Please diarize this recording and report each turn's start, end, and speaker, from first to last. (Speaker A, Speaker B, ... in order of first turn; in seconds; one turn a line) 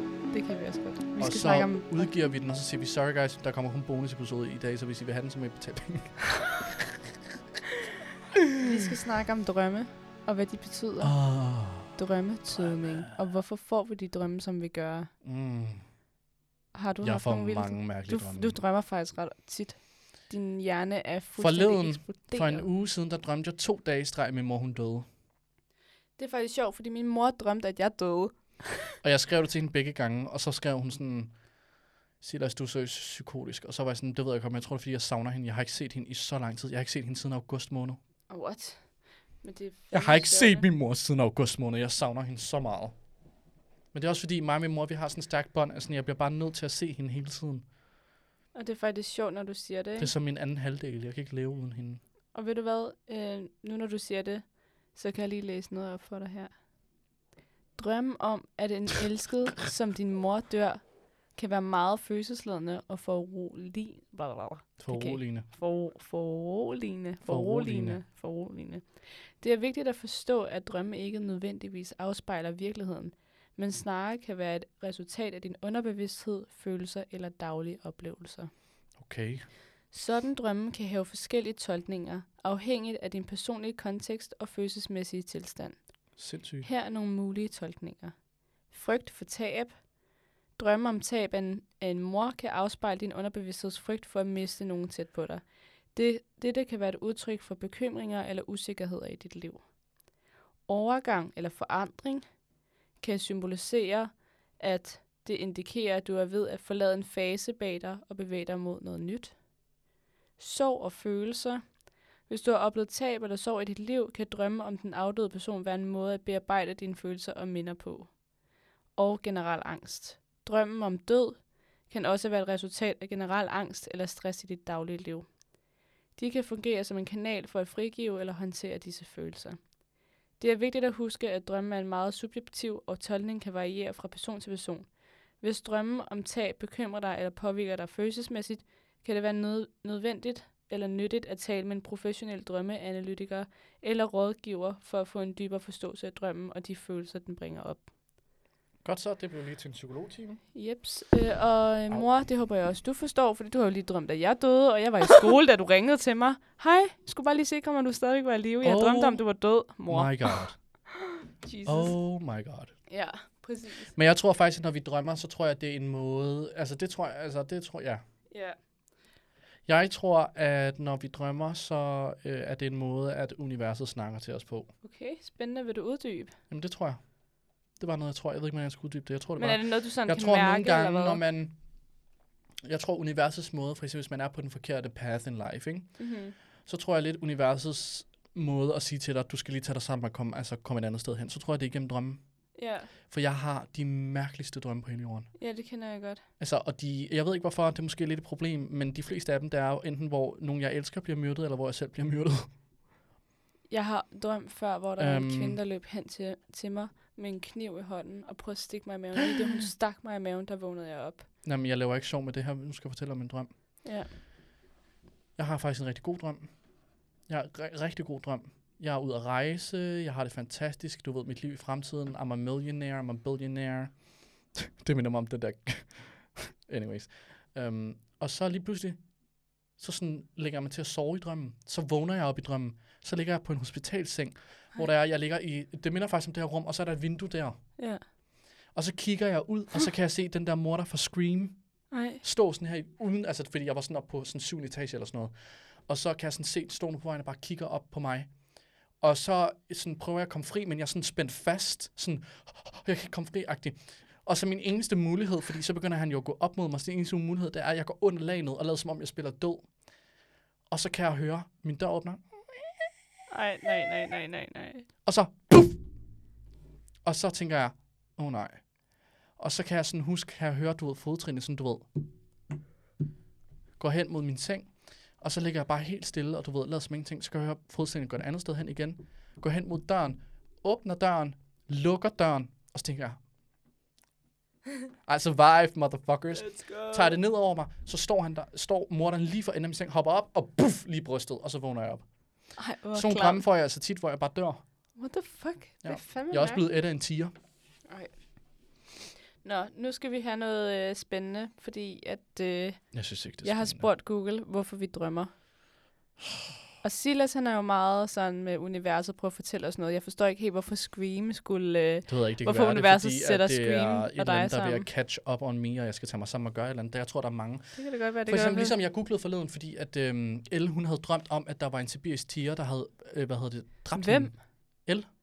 Speaker A: 0.3-2.1
Speaker B: 1.2-6.7
Speaker A: 8.6-11.4
Speaker B: 11.0-13.2
Speaker A: 11.9-15.1
Speaker B: 15.2-15.9
Speaker A: 16.7-22.7
Speaker B: 17.0-18.6
Speaker B: 21.4-25.1
Speaker A: 26.2-28.9
Speaker B: 29.0-31.4
Speaker B: 32.2-38.0
Speaker A: 38.3-40.7
Speaker B: 39.9-43.0
Speaker B: 43.9-47.7
Speaker A: 48.5-50.1
Speaker B: 50.0-52.0
Speaker A: 52.3-56.6
Speaker A: 57.8-78.5
Speaker B: 64.8-65.5
Speaker B: 67.2-68.0
Speaker B: 79.0-79.5
Speaker A: 79.9-89.9
Speaker B: 86.2-86.7
Speaker A: 90.6-99.7
Speaker A: 100.7-102.4
Speaker A: 103.0-109.5
Speaker A: 110.4-118.3
Speaker A: 119.0-125.4
Speaker A: 126.1-129.8
Speaker A: 130.4-147.9
Speaker B: 148.8-150.4
Speaker A: 150.5-160.7
Speaker B: 158.6-160.6
Speaker A: 161.4-162.0
Speaker B: 161.7-162.8
Speaker A: 162.9-163.9
Speaker B: 163.9-168.0
Speaker A: 168.3-168.6
Speaker B: 169.7-174.7
Speaker A: 174.8-176.4
Speaker B: 176.5-181.7
Speaker A: 179.4-181.2
Speaker B: 182.7-195.4
Speaker A: 186.0-186.3
Speaker A: 192.6-192.9
Speaker A: 195.4-196.3
Speaker B: 196.4-202.5
Speaker A: 203.7-211.3
Speaker B: 205.0-205.6
Speaker B: 211.4-213.8
Speaker A: 213.8-214.1
Speaker B: 215.4-238.1
Speaker A: 237.8-238.1
Speaker B: 238.7-260.2
Speaker A: 241.9-242.2
Speaker B: 260.7-262.9
Speaker A: 263.3-264.9
Speaker B: 265.1-265.8
Speaker B: 267.1-271.9
Speaker B: 273.8-283.2
Speaker B: 285.1-294.7
Speaker A: 286.4-287.2
Speaker A: 292.6-293.4
Speaker A: 295.0-296.6
Speaker B: 295.8-297.3
Speaker A: 297.9-298.9
Speaker A: 299.4-305.4
Speaker B: 302.9-303.9
Speaker A: 306.8-314.9
Speaker B: 312.1-325.1
Speaker A: 317.8-318.8
Speaker A: 323.9-324.5